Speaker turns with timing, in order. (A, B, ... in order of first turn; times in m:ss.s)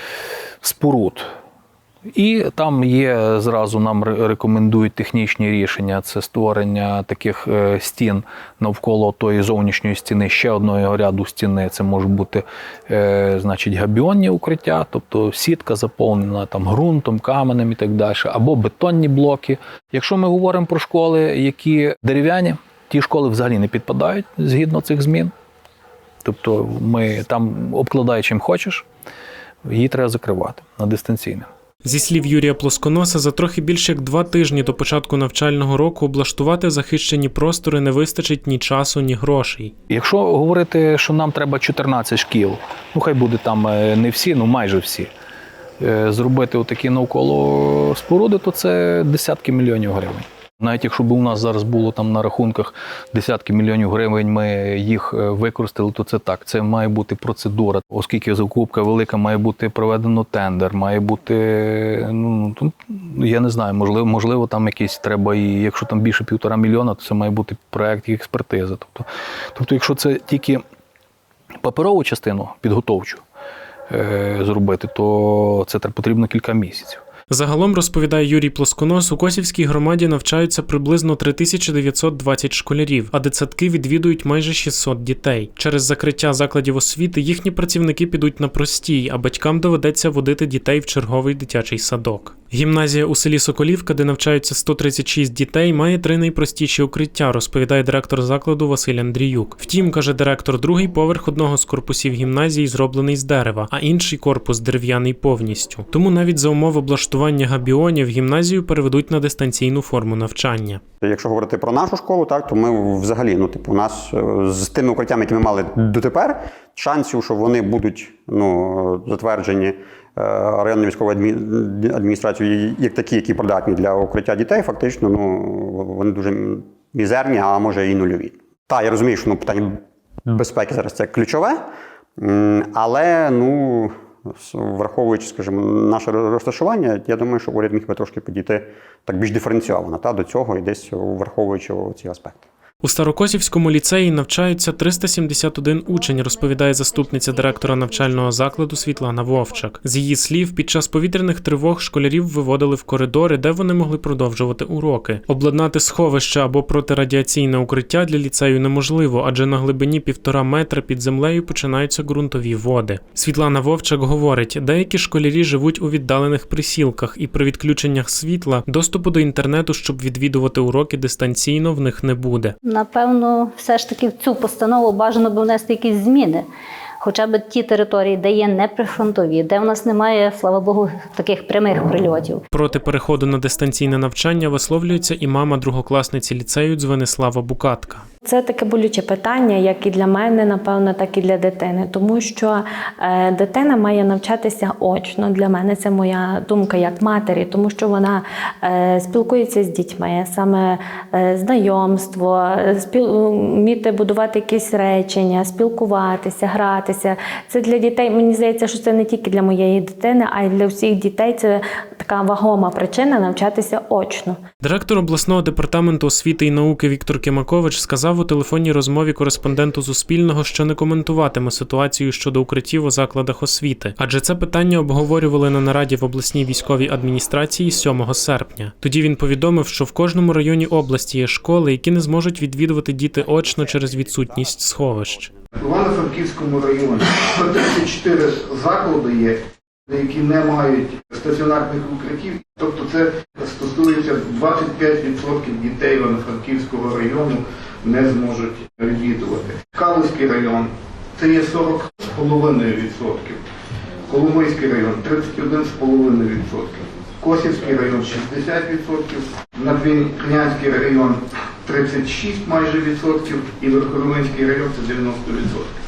0:00.6-0:01.3 A
0:02.1-0:25.3 A
0:26.2-0:28.8 A
0:29.6-0:31.5 A
0:31.8-0:39.7 B
0:39.9-0:45.1 A
0:45.8-1:10.6 A
1:11.6-1:13.2 A
1:13.9-1:17.0 A
1:17.3-1:50.8 B
1:51.0-2:11.6 C
2:12.2-2:22.4 C
2:22.8-2:52.5 B
2:52.6-2:56.5 D
2:57.0-3:02.4 D
3:02.5-3:08.0 B
3:08.2-3:34.4 E
3:34.6-3:55.3 B
3:55.5-4:13.4 F
4:14.0-4:25.7 F